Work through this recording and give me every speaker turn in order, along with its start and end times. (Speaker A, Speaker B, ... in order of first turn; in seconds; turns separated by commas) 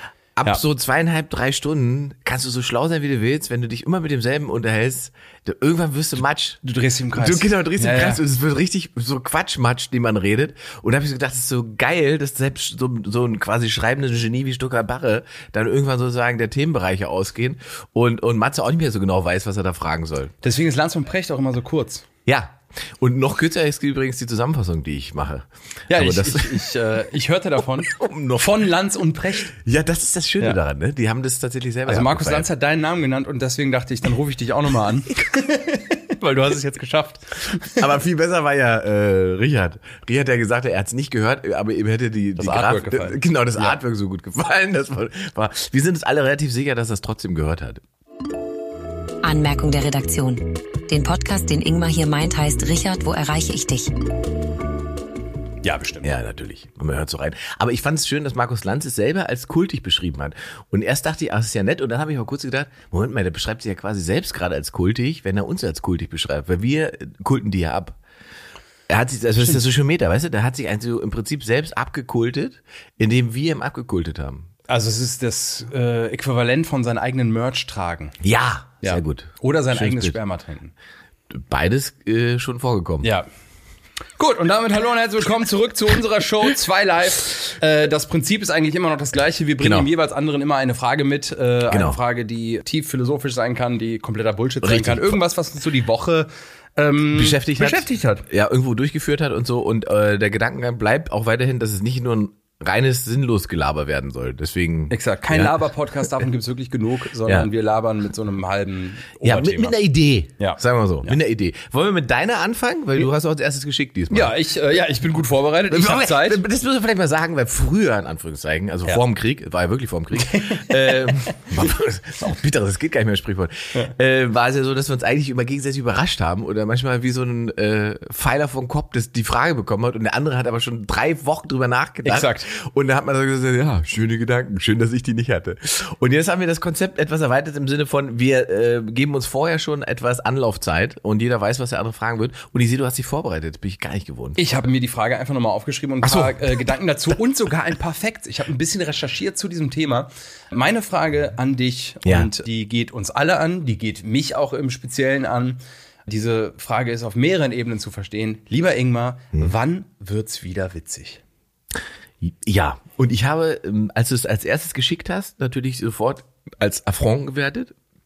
Speaker A: 0.3-6.6, Speaker B: 6.6-8.2, Speaker A: 7.1-20.3, Speaker B: 20.4-22.1, Speaker A: 22.2-26.7, Speaker B: 25.9-29.5, Speaker A: 27.9-28.6, Speaker A: 29.5-32.5, Speaker B: 31.9-37.8, Speaker A: 37.7-47.8, Speaker B: 42.4-43.8, Speaker C: 49.2-54.0, Speaker B: 55.6-56.1, Speaker A: 56.0-68.0, Speaker A: 68.9-74.5, Speaker B: 74.7-78.2, Speaker A: 78.2-80.2, Speaker B: 78.8-80.7, Speaker A: 81.3-83.1, Speaker B: 83.0-83.3, Speaker B: 84.2-98.2, Speaker A: 89.6-89.9, Speaker A: 91.7-92.0, Speaker A: 94.6-95.2, Speaker A: 97.1-105.6, Speaker B: 104.9-109.8, Speaker A: 109.2-114.4, Speaker B: 110.4-111.2, Speaker B: 114.1-116.4, Speaker A: 115.7-144.4, Speaker B: 120.2-121.3, Speaker B: 132.0-132.5, Speaker B: 144.4-161.2, Speaker A: 146.0-146.3, Speaker A: 162.2-167.7